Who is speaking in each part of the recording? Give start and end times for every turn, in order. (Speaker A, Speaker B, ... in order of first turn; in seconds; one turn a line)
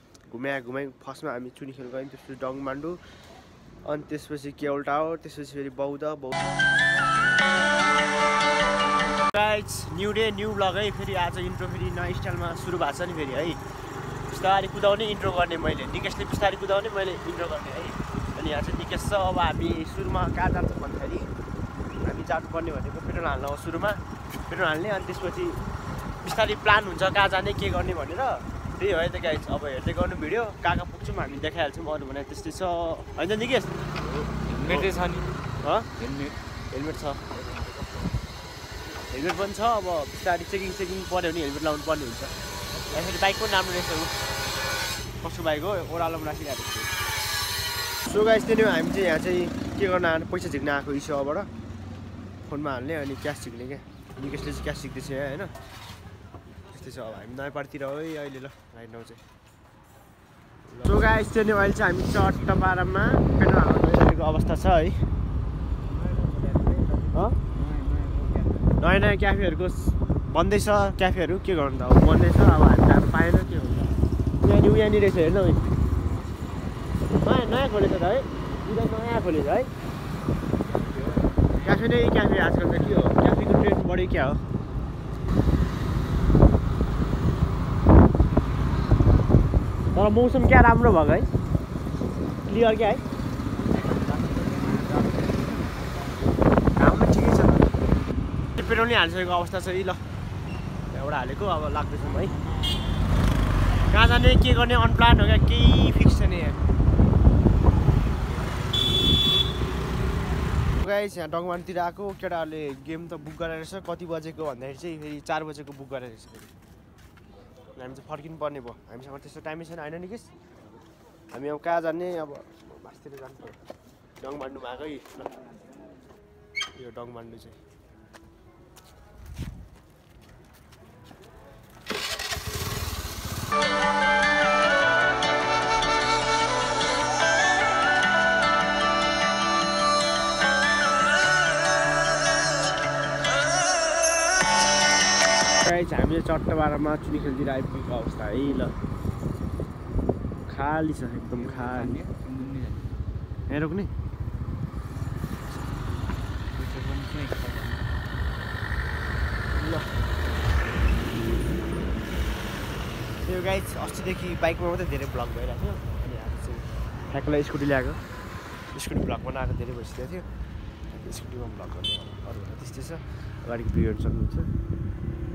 Speaker A: 0.3-3.0
Speaker A: 3.8-6.5
Speaker A: 9.3-13.6
Speaker A: 14.3-21.3
Speaker A: 22.0-25.6
Speaker A: 26.2-33.8
Speaker B: 34.1-35.3
Speaker A: 34.6-34.9
Speaker A: 35.6-35.9
Speaker B: 36.0-36.4
Speaker A: 36.7-37.5
Speaker A: 39.1-42.4
Speaker A: 42.9-44.1
Speaker A: 45.2-46.9
Speaker A: 48.0-51.5
Speaker A: 52.4-55.5
Speaker A: 56.7-59.2
Speaker A: 60.7-65.0
Speaker B: 65.9-68.8
Speaker A: 67.1-67.4
Speaker A: 68.8-75.6
Speaker A: 77.1-79.7
Speaker A: 81.6-84.4
Speaker A: 89.9-91.3
Speaker A: 92.5-93.0
Speaker B: 93.7-95.7
Speaker A: 96.8-97.7
Speaker A: 98.6-100.0
Speaker A: 100.9-102.3
Speaker A: 103.9-106.7
Speaker A: 110.7-116.5
Speaker A: 117.7-120.3
Speaker A: 121.3-123.6
Speaker A: 124.2-125.3
Speaker A: 126.7-127.6
Speaker A: 145.6-148.7
Speaker A: 150.5-152.0
Speaker B: 151.3-152.9
Speaker A: 153.5-153.9
Speaker B: 156.5-157.9
Speaker A: 159.5-159.9
Speaker A: 163.2-168.0
Speaker A: 168.7-170.3
Speaker A: 170.9-174.5